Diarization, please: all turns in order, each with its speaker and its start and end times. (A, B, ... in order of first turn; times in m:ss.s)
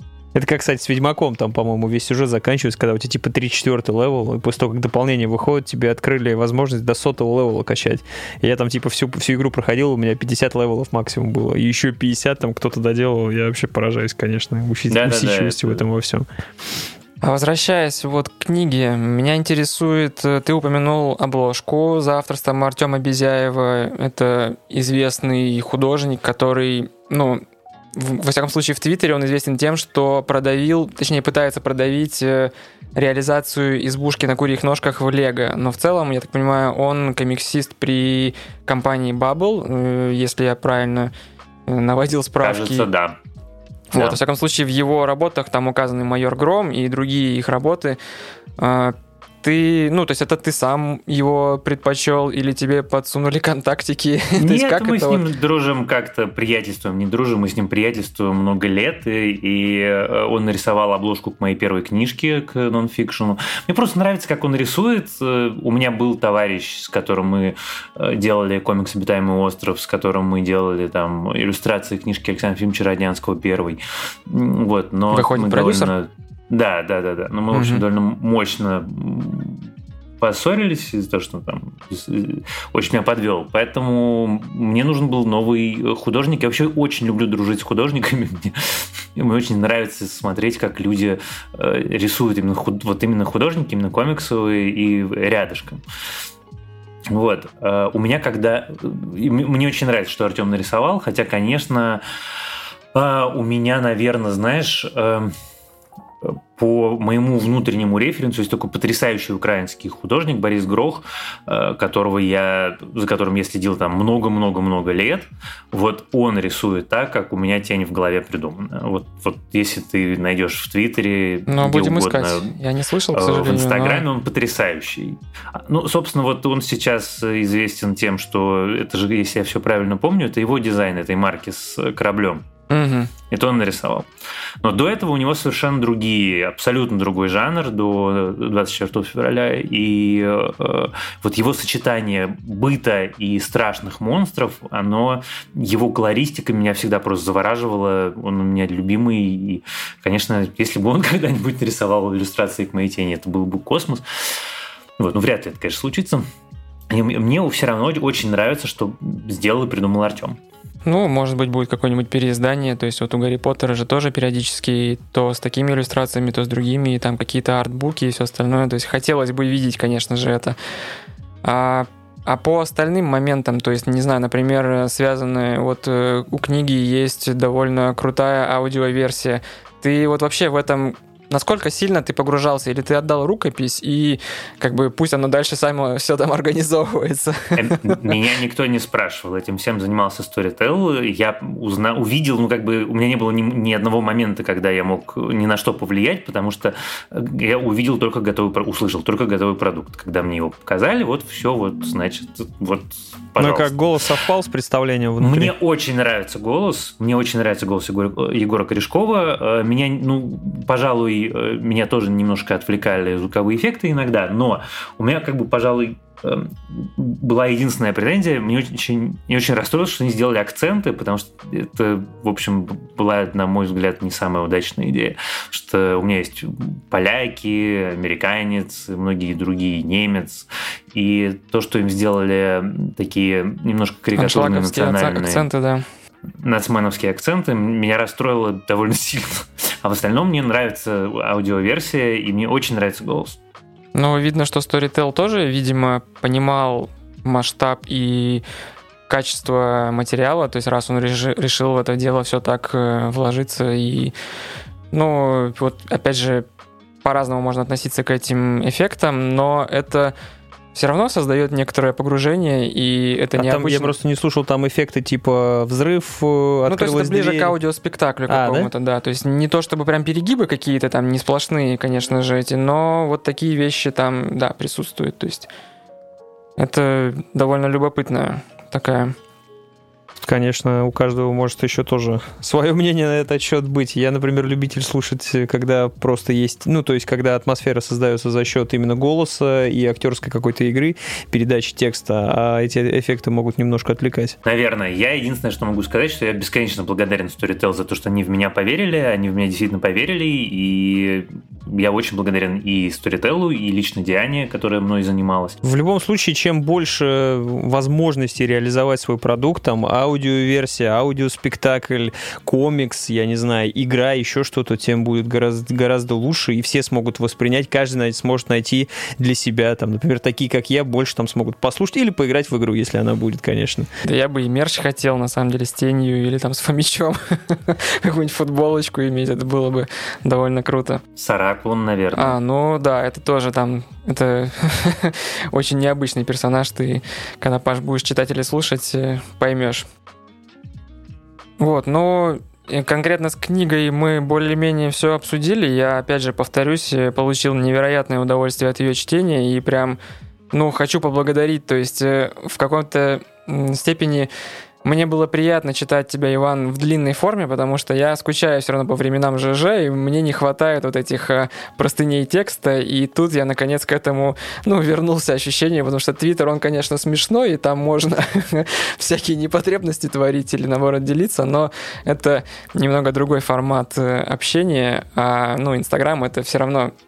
0:00.3-0:16.3 A
0:14.9-0:15.8 B
0:17.2-0:27.4 C
0:28.0-0:41.1 C
0:41.7-0:42.9 C
0:42.4-0:43.2 B
0:43.9-0:48.0 C
0:48.6-0:55.2 C
0:54.4-1:35.8 B
1:15.1-1:15.9 C
1:17.5-1:17.8 C
1:37.1-1:42.0 B
1:42.9-1:45.3 B
1:46.2-2:02.5 B
2:01.5-2:04.1 C
2:03.1-2:12.4 B
2:12.7-2:13.1 C
2:13.3-2:14.1 B
2:14.6-2:34.4 B
2:35.0-2:36.2 B
2:36.9-2:40.4 B
2:40.9-2:50.6 C
2:51.4-3:08.0 C
3:07.6-3:23.7 B
3:23.4-3:25.5 A
3:25.2-3:55.5 B
3:54.2-3:55.8 C
3:56.4-4:03.4 B
4:04.0-4:08.4 C
4:09.1-4:14.1 C
4:14.9-4:16.5 C
4:17.0-4:20.1 C
4:20.7-4:23.9 C
4:23.4-4:27.6 A
4:26.7-4:35.5 C
4:28.3-4:28.7 A
4:36.6-4:39.2 C
4:40.2-4:54.4 A
4:54.4-5:05.6 B
5:05.6-5:23.9 A
5:24.0-5:31.0 C
5:31.2-5:32.4 B
5:32.1-5:39.9 C
5:41.6-5:50.0 C
5:50.5-5:54.3 C
5:54.8-6:16.9 C